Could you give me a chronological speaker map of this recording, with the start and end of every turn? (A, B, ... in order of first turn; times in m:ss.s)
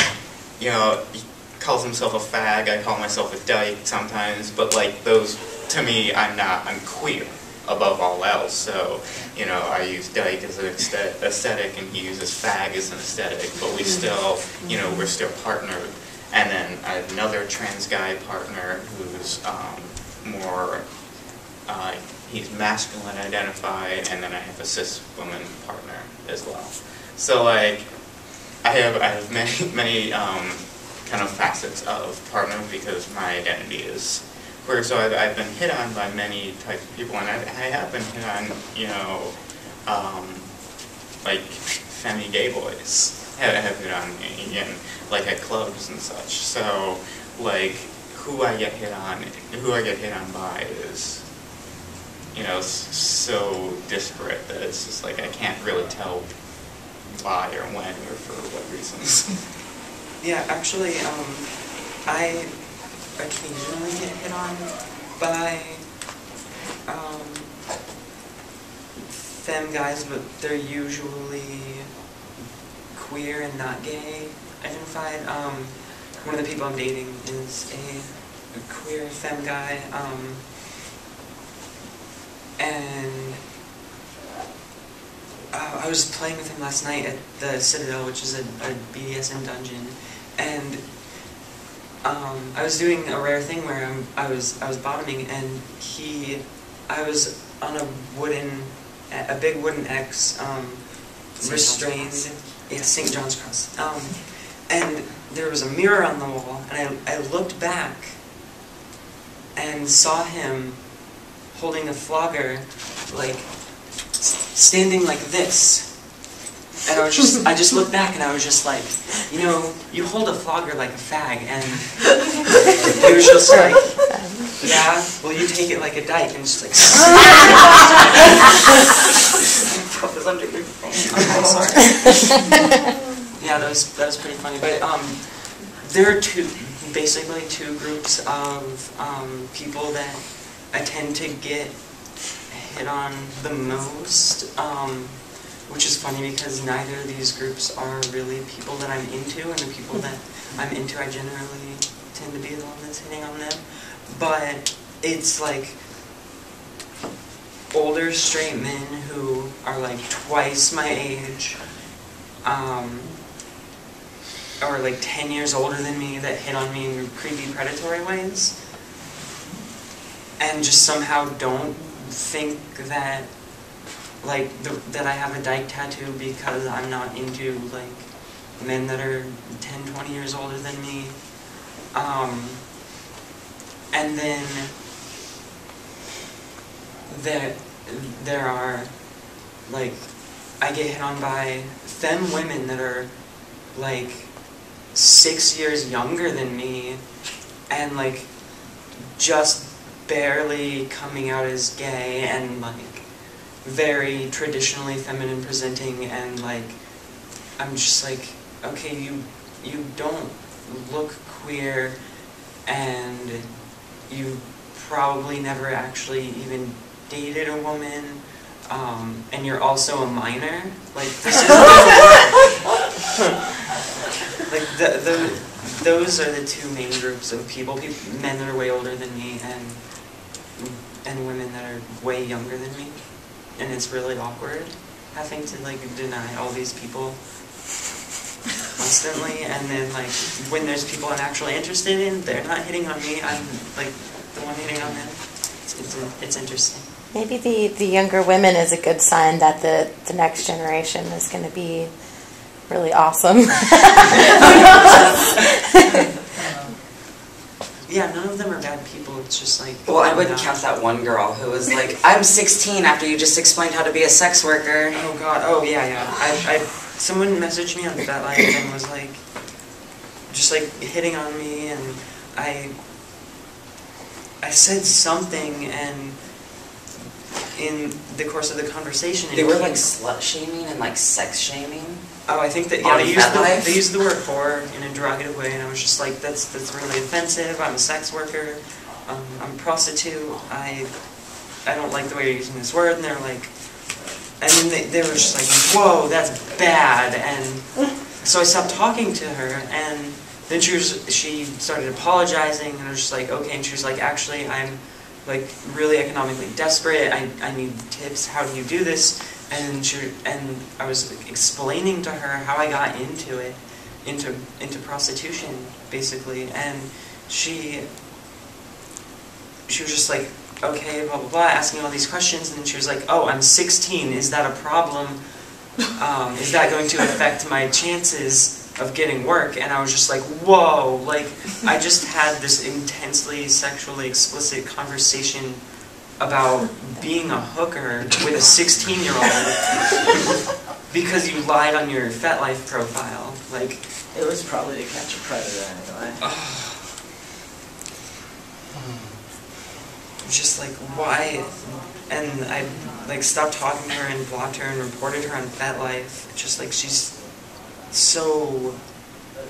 0:00.6-0:40.7 A
0:41.2-0:51.3 A
0:52.3-0:59.4 A
1:00.2-1:06.2 B
1:06.8-1:07.7 B
1:09.1-1:11.8 B
1:12.9-1:20.5 B
1:22.6-1:23.4 B
1:25.5-1:31.3 B
1:32.0-1:48.3 B
1:41.4-1:42.3 C
1:49.5-1:56.3 B
1:56.8-2:02.4 B
2:02.9-2:08.0 B
2:03.5-2:04.6 D
2:09.7-2:11.8 C
2:11.1-2:12.3 B
2:13.4-2:35.9 B
2:37.7-2:41.8 B
2:42.4-2:43.1 B
2:44.6-2:48.7 B
2:50.4-3:02.7 B
3:03.9-3:04.8 B
3:07.1-3:42.6 B
3:44.4-3:57.5 B
3:58.8-4:07.0 B
4:07.1-4:16.0 D
4:14.9-4:15.3 C
4:17.9-4:20.6 B
4:19.9-4:25.1 C
4:24.9-4:32.9 B
4:34.4-4:36.6 B
4:37.4-4:39.8 B
4:39.3-4:42.1 C
4:42.2-5:17.9 B
4:42.8-4:43.8 C
5:19.7-5:40.2 B
5:40.9-5:44.1 B
5:44.1-5:46.2 E
5:46.2-5:46.9 B
5:50.2-5:59.0 B